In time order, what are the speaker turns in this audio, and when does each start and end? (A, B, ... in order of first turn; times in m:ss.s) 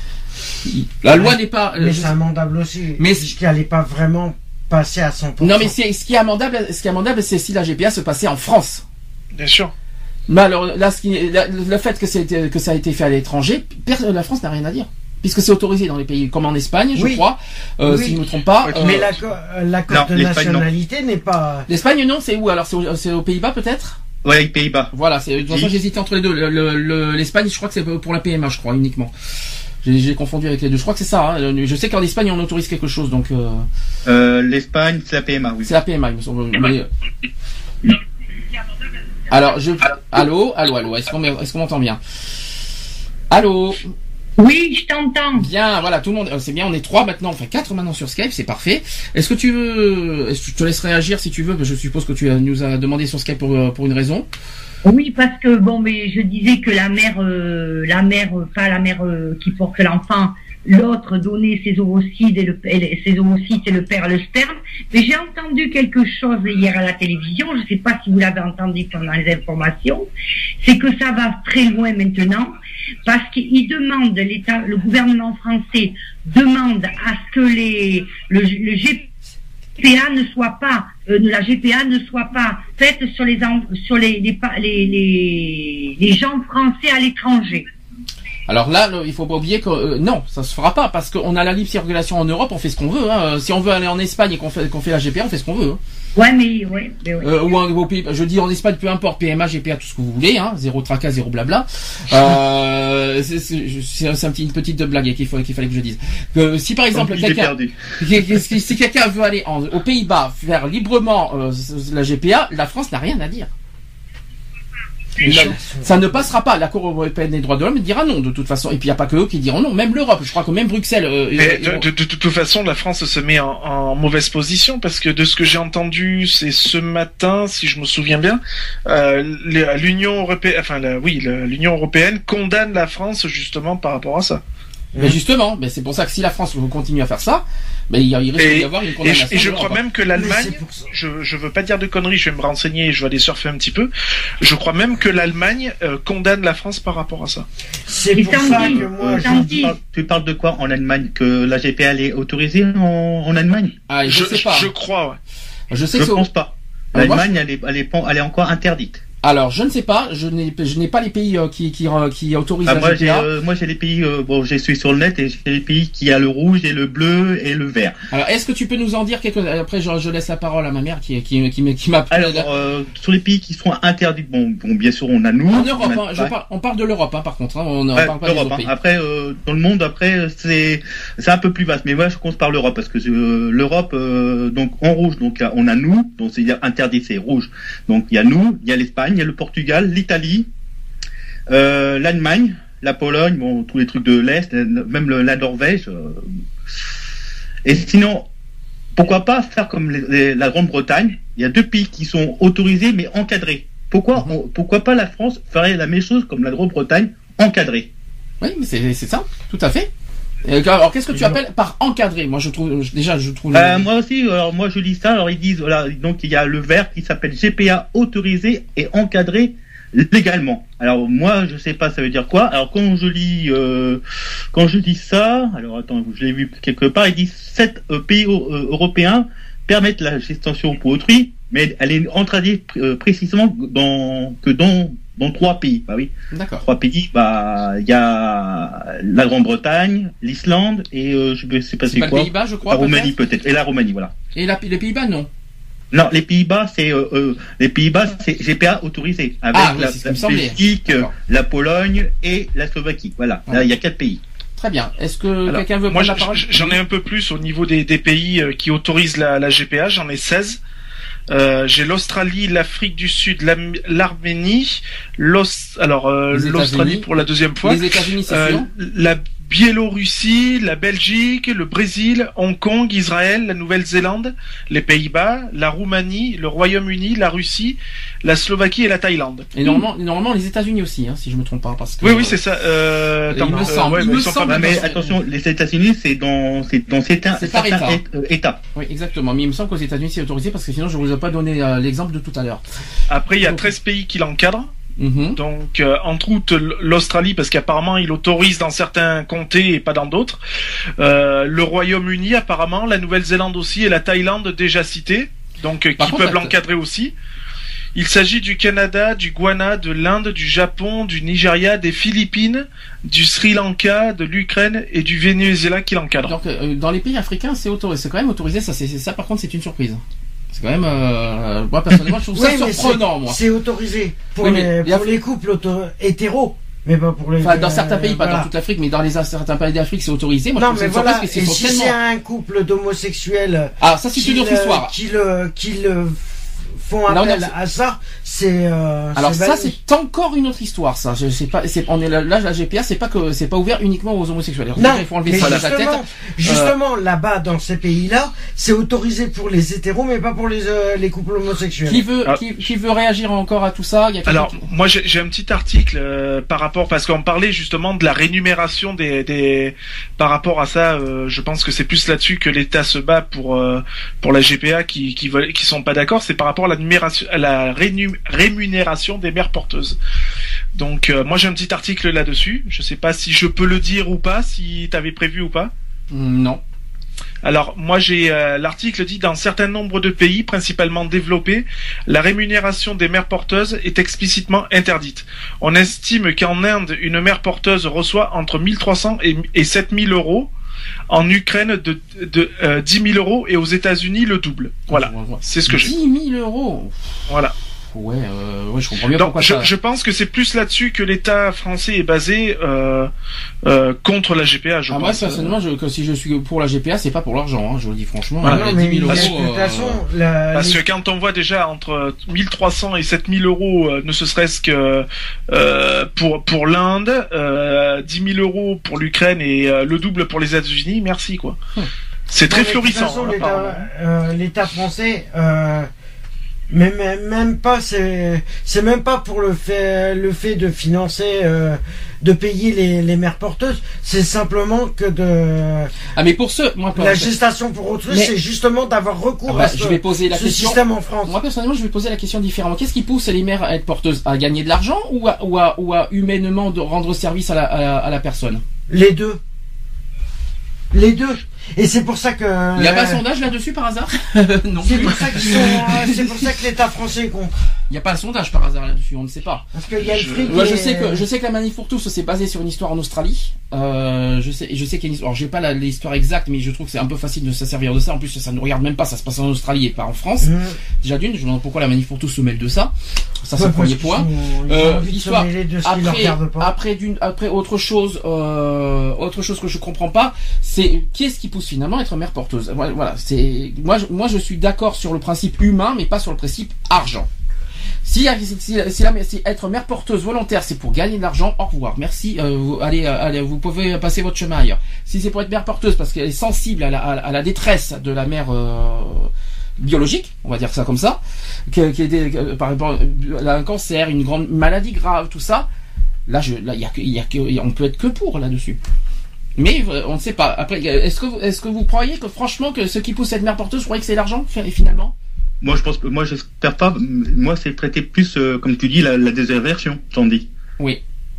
0:00.6-0:02.1 A
0:01.1-0:05.7 B
0:03.0-0:03.3 A
0:05.4-0:08.8 A
0:09.3-0:09.7 C
0:10.3-0:19.1 A
0:16.9-0:17.2 B
0:17.8-0:21.7 B
0:18.7-0:19.0 D
0:19.9-0:20.6 D
0:21.7-0:24.0 A
0:24.2-0:24.9 D
0:24.9-0:29.1 A
0:25.5-0:25.7 D
0:29.8-0:33.6 A
0:34.0-0:35.7 D
0:35.6-0:36.9 A
0:39.3-0:42.0 A
0:43.3-0:43.9 A
0:44.4-0:45.5 E
0:45.3-0:54.2 A
0:54.8-1:10.1 E
1:10.6-1:19.1 E
1:19.8-1:27.7 E
1:28.5-1:35.8 A
1:36.2-1:37.4 E
1:37.2-1:53.5 A
1:46.9-1:47.8 D
1:55.2-1:56.2 B
1:55.2-2:01.8 A
2:01.3-2:14.4 C
2:14.9-2:15.2 B
2:15.0-2:19.8 A
2:18.4-2:23.9 C
2:20.1-2:20.9 B
2:24.4-2:27.4 C
2:27.9-2:29.6 B
2:28.1-2:29.8 E
2:28.4-2:33.7 D
2:33.9-2:34.7 A
2:34.1-2:35.2 C
2:35.7-2:36.3 A
2:35.9-2:39.0 D
2:36.9-2:37.3 A
2:39.2-2:43.3 A
2:42.6-2:47.9 D
2:48.1-2:52.5 A
2:52.1-2:56.3 D
2:55.5-2:58.7 A
2:57.9-3:10.5 D
3:11.5-3:16.8 D
3:17.6-3:18.3 D
3:19.0-3:27.9 D
3:28.4-3:29.9 A
3:30.4-3:33.9 A
3:33.5-3:44.0 D
3:44.5-3:56.1 D
3:56.3-3:56.6 A
3:56.6-4:04.1 D
4:01.9-4:03.1 A
4:04.3-4:05.3 A
4:05.9-4:14.2 D
4:09.5-4:11.1 A
4:14.6-4:16.8 A
4:15.5-4:20.6 C
4:21.3-4:39.8 C
4:26.3-4:27.1 A
4:27.6-4:28.7 A
4:39.5-4:42.4 A
4:42.0-4:44.9 C
4:43.3-4:45.2 A
4:43.4-4:43.8 B
4:44.5-4:48.6 D
4:47.4-4:48.0 A
4:48.7-4:52.6 A
4:53.1-4:54.7 C
4:53.4-4:53.7 A
4:55.0-4:55.4 A
4:55.4-5:00.4 C
5:01.0-5:07.1 C
5:06.0-5:06.5 A
5:07.9-5:16.4 C
5:16.3-5:20.0 A
5:20.5-5:23.4 A
5:22.3-5:28.5 B
5:24.4-5:25.1 A
5:27.4-5:32.0 A
5:30.6-5:39.7 B
5:33.8-5:34.9 A
5:37.1-5:37.5 A
5:39.1-5:46.7 A
5:44.8-5:52.0 B
5:45.4-5:45.6 C
5:51.9-5:54.6 A
5:54.3-6:10.0 C
6:10.7-6:15.7 C
6:16.1-6:16.6 A
6:17.4-6:30.5 C
6:31.1-6:35.9 C
6:34.9-6:37.1 A
6:37.3-6:37.5 C
6:37.9-6:39.7 A
6:39.1-6:43.1 C
6:43.6-6:45.5 C
6:44.9-6:50.0 A
6:48.4-6:50.8 B
6:48.4-6:49.3 C
6:50.5-7:01.6 C
7:02.3-7:03.9 C
7:02.5-7:05.9 B
7:06.7-7:15.9 B
7:16.1-7:17.3 A
7:16.9-7:21.3 B
7:19.5-7:28.6 A
7:28.9-7:29.4 B
7:30.9-7:33.2 B
7:32.8-7:36.4 A
7:34.8-7:37.6 B
7:37.9-7:39.6 A
7:39.7-7:41.2 B
7:40.4-7:52.9 A
7:50.4-7:50.8 B
7:53.4-8:07.3 A
7:53.6-7:56.7 B
8:08.0-8:25.6 A
8:26.3-8:28.8 A
8:29.6-8:35.1 A
8:35.6-8:40.5 D